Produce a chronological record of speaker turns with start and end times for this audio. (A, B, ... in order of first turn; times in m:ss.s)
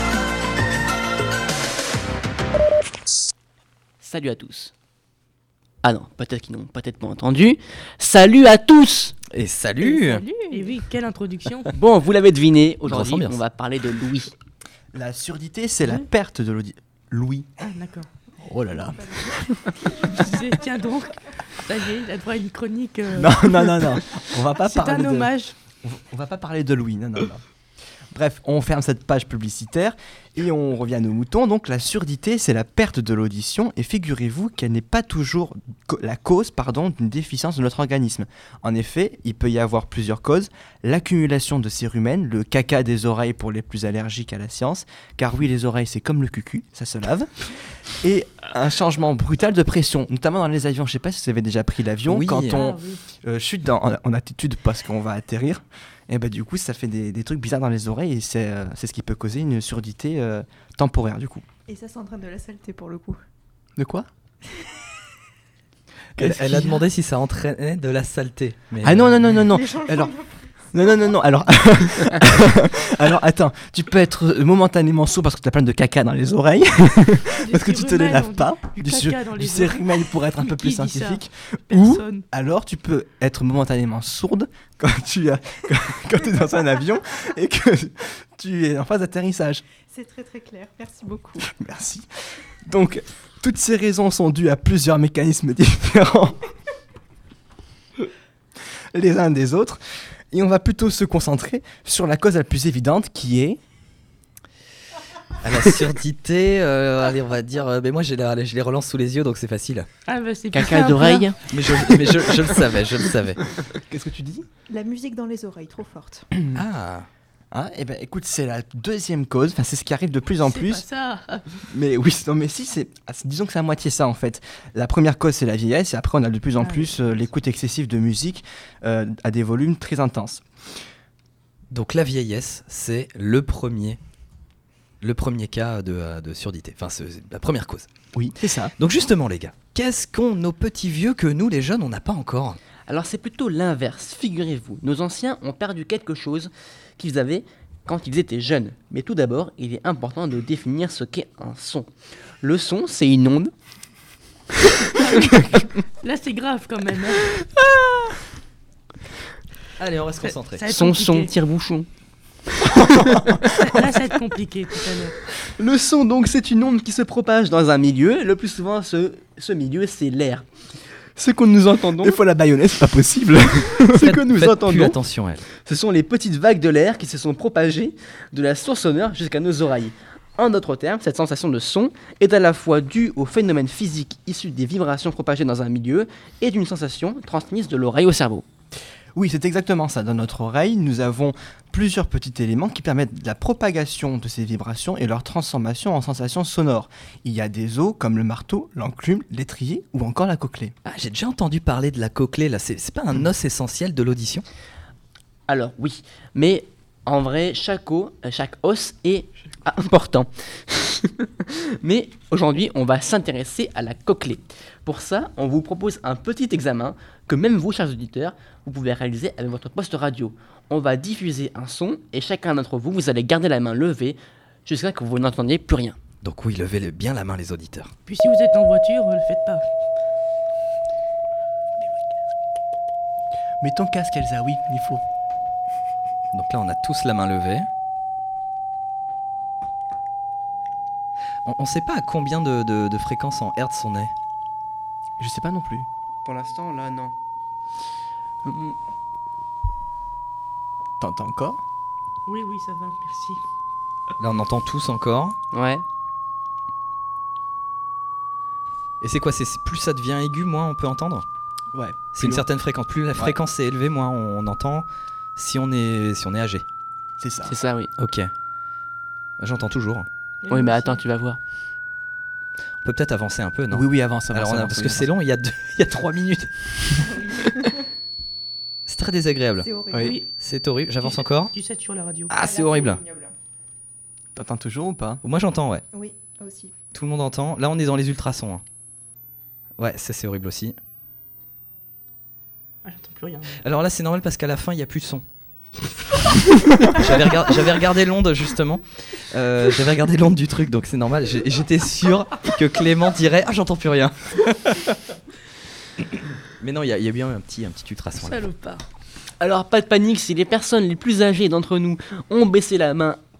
0:04.0-0:04.7 A
0:05.8-0:09.2 A
0:09.3-0:10.2 B
0:09.8-0:11.7 C
0:11.7-0:14.4 A
0:12.9-0:13.4 B
0:14.9-0:17.5 D
0:17.6-0:18.1 C
0:18.4-0:19.4 D
0:18.9-0:19.5 E
0:20.1-0:23.3 C
0:23.2-0:25.3 D
0:24.6-0:25.5 C
0:25.8-0:27.4 D
0:28.1-0:47.3 D
0:48.0-1:01.4 D
0:52.1-0:52.6 B
0:52.6-0:53.0 C
1:01.7-1:03.2 E
1:03.8-1:04.1 D
1:06.2-1:09.4 B
1:06.2-1:06.8 D
1:08.8-1:10.2 D
1:09.5-1:10.1 E
1:10.7-1:29.6 D
1:17.4-1:19.7 C
1:20.4-1:21.2 C
1:21.7-1:22.2 C
1:29.9-1:31.5 E
1:31.4-1:32.1 D
1:32.7-1:36.4 D
1:38.9-1:39.8 D
1:40.3-1:43.6 D
1:45.4-1:49.9 B
1:50.1-1:51.3 C
1:50.5-1:51.8 A
1:51.5-1:53.4 B
1:53.7-1:54.5 D
1:54.7-1:56.3 E
1:56.5-1:57.1 B
1:57.5-2:00.8 D
2:00.5-2:01.5 C
2:01.7-2:10.4 D
2:11.7-2:14.0 B
2:15.0-2:17.9 B
2:18.1-2:18.7 D
2:18.8-2:22.6 B
2:22.9-2:31.9 A
2:32.4-2:33.5 A
2:36.0-2:37.2 C
2:39.8-2:40.6 B
2:40.2-2:41.3 C
2:40.6-2:41.9 A
2:42.8-2:43.6 D
2:43.6-2:45.1 C
2:45.5-2:50.5 A
2:51.2-2:52.2 A
2:52.0-2:54.2 D
2:53.9-2:55.0 A
2:54.0-2:55.5 B
2:55.5-3:08.5 A
3:09.2-3:20.7 D
3:20.8-3:24.4 B
3:25.5-3:46.0 A
3:46.2-3:47.9 B
3:48.1-3:49.6 C
3:53.6-3:55.0 D
3:56.3-3:57.7 B
4:01.4-4:04.1 B
4:05.2-4:05.9 D
4:06.2-4:07.2 A
4:08.4-4:08.8 A
4:11.0-4:11.6 D
4:12.3-4:13.4 C
4:14.2-4:15.4 B
4:15.5-4:15.8 A
4:19.0-4:21.2 B
4:21.7-4:22.4 D
4:22.1-4:26.6 B
4:27.2-4:27.6 D
4:27.5-4:27.9 A
4:28.0-4:28.3 B
4:29.4-4:30.1 B
4:30.5-4:31.0 C
4:30.5-4:31.4 A
4:32.8-4:37.2 B
4:33.7-4:35.1 D
4:38.9-4:41.5 B
4:39.6-4:40.2 E
4:39.9-4:40.2 D
4:40.0-4:40.3 C
4:41.5-4:42.3 C
4:42.3-4:43.0 B
4:42.4-4:43.3 E
4:44.4-4:45.2 D
4:45.2-4:45.8 B
4:45.9-4:46.7 E
4:46.9-4:48.6 B
4:49.8-4:50.8 B
4:52.8-4:53.6 C
4:53.6-4:55.2 B
4:56.8-5:04.9 B
5:06.5-5:08.4 B
5:08.2-5:08.8 C
5:09.4-5:13.2 A